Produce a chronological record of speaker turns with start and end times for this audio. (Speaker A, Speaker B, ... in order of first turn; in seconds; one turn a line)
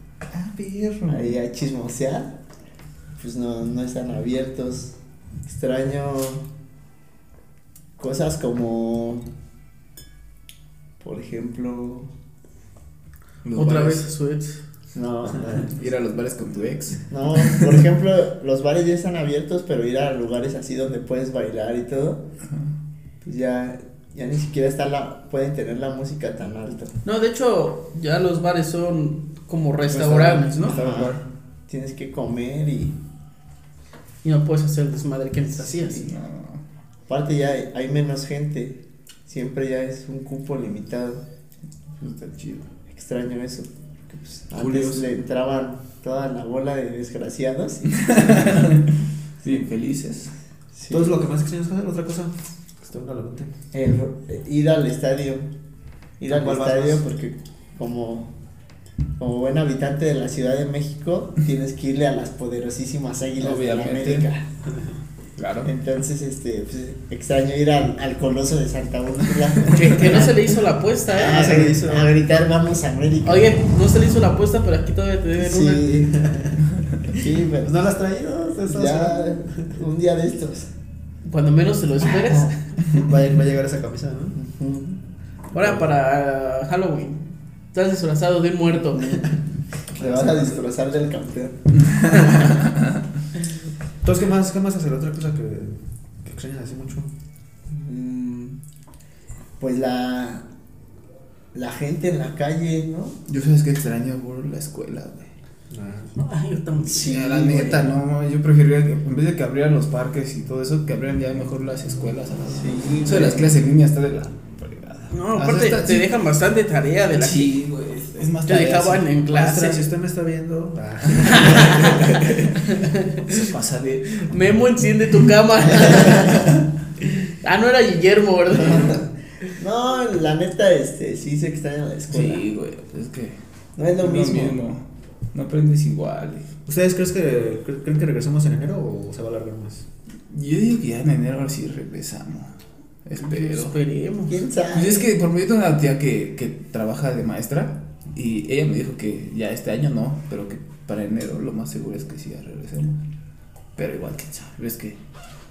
Speaker A: 0.3-1.4
Speaker B: 1.1-2.3
Speaker B: 3.1-4.9
Speaker B: 5.5-6.4
Speaker B: 8.0-9.3
Speaker B: 11.0-12.1
Speaker A: 13.4-14.1
Speaker C: 13.5-14.6
Speaker B: 14.9-15.7
Speaker A: 15.7-17.0
Speaker B: 17.1-22.2
Speaker B: 23.2-26.9
Speaker C: 27.0-30.7
Speaker B: 29.9-33.0
Speaker A: 30.6-31.1
Speaker C: 34.2-36.0
Speaker A: 36.0-36.6
Speaker B: 37.1-41.2
Speaker A: 42.0-42.7
Speaker B: 42.9-48.3
Speaker A: 44.5-45.1
Speaker A: 47.9-48.9
Speaker A: 49.4-50.3
Speaker B: 50.7-51.2
Speaker D: 50.9-53.5
Speaker B: 53.7-55.5
Speaker B: 56.2-58.3
Speaker D: 56.3-57.0
Speaker B: 59.2-64.4
Speaker A: 63.4-64.3
Speaker A: 65.4-65.7
Speaker B: 65.6-70.5
Speaker C: 69.7-71.5
Speaker B: 71.1-73.6
Speaker D: 71.2-72.1
Speaker C: 73.2-75.9
Speaker B: 75.4-76.1
Speaker D: 76.2-76.5
Speaker B: 77.1-77.8
Speaker D: 77.6-79.7
Speaker B: 78.7-80.7
Speaker C: 81.2-82.5
Speaker D: 82.9-84.3
Speaker B: 84.3-85.0
Speaker C: 85.5-89.2
Speaker D: 85.5-85.8
Speaker D: 89.9-90.6
Speaker B: 89.9-91.6
Speaker A: 91.8-92.8
Speaker D: 94.0-97.1
Speaker B: 97.7-98.6
Speaker B: 99.6-100.5
Speaker B: 101.5-103.2
Speaker A: 103.3-105.3
Speaker D: 105.7-106.1
Speaker C: 106.2-107.1
Speaker B: 106.8-107.9
Speaker A: 107.0-116.0
Speaker B: 112.5-113.5
Speaker C: 115.1-117.5
Speaker A: 117.2-119.1
Speaker C: 118.5-119.8
Speaker D: 119.3-122.2
Speaker A: 121.2-122.5
Speaker C: 122.7-123.0
Speaker A: 123.3-124.2
Speaker C: 124.2-126.3
Speaker A: 126.1-126.4
Speaker C: 127.4-129.0
Speaker B: 129.5-132.4
Speaker A: 132.1-133.4
Speaker B: 133.8-134.6
Speaker A: 134.0-136.5
Speaker D: 136.7-139.8
Speaker A: 140.3-142.5
Speaker A: 143.0-143.7
Speaker C: 143.2-144.4
Speaker B: 144.3-145.1
Speaker A: 144.7-153.0
Speaker A: 153.8-155.0